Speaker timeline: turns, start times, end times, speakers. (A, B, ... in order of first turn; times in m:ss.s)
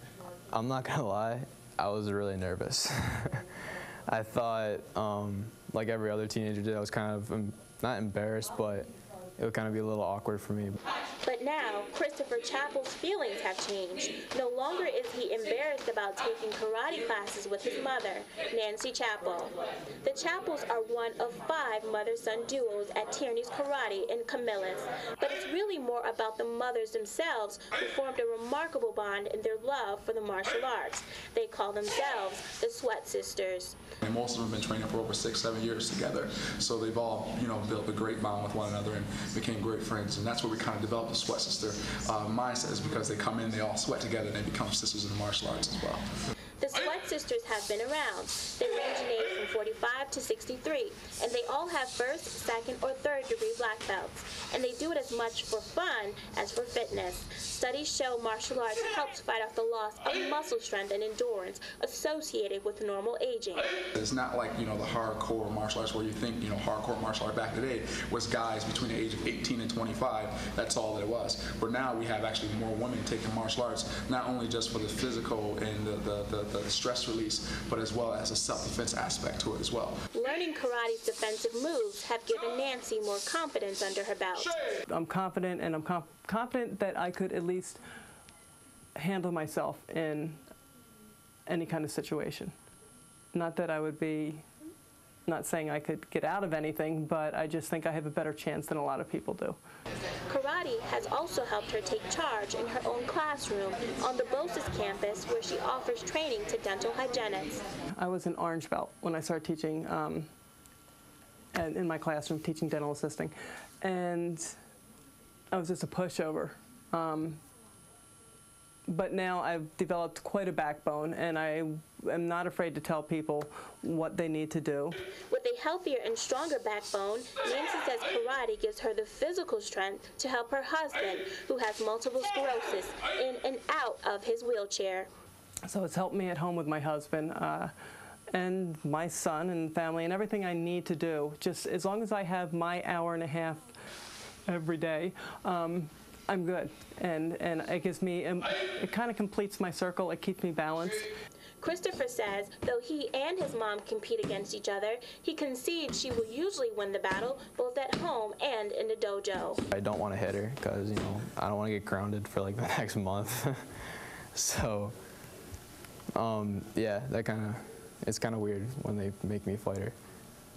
0:00.5-0:03.4 A
0:04.1-0:10.8 A
0:11.2-0:33.8 B
0:34.0-0:46.0 C
0:46.6-1:03.7 B
1:03.9-1:20.0 C
1:20.1-1:24.5 B
1:24.9-1:27.8 D
1:29.0-1:30.4 D
1:31.5-1:32.5 D
1:33.3-1:34.4 D
1:35.3-1:39.6 D
1:40.3-1:47.6 B
1:47.9-1:50.3 D
1:51.5-1:54.6 D
1:55.5-1:57.4 D
1:58.9-2:05.0 D
2:05.3-2:15.1 B
2:15.7-2:17.7 D
2:18.3-2:23.7 D
2:24.4-2:31.1 D
2:31.6-2:39.6 B
2:39.7-2:44.9 A
2:46.1-2:49.9 A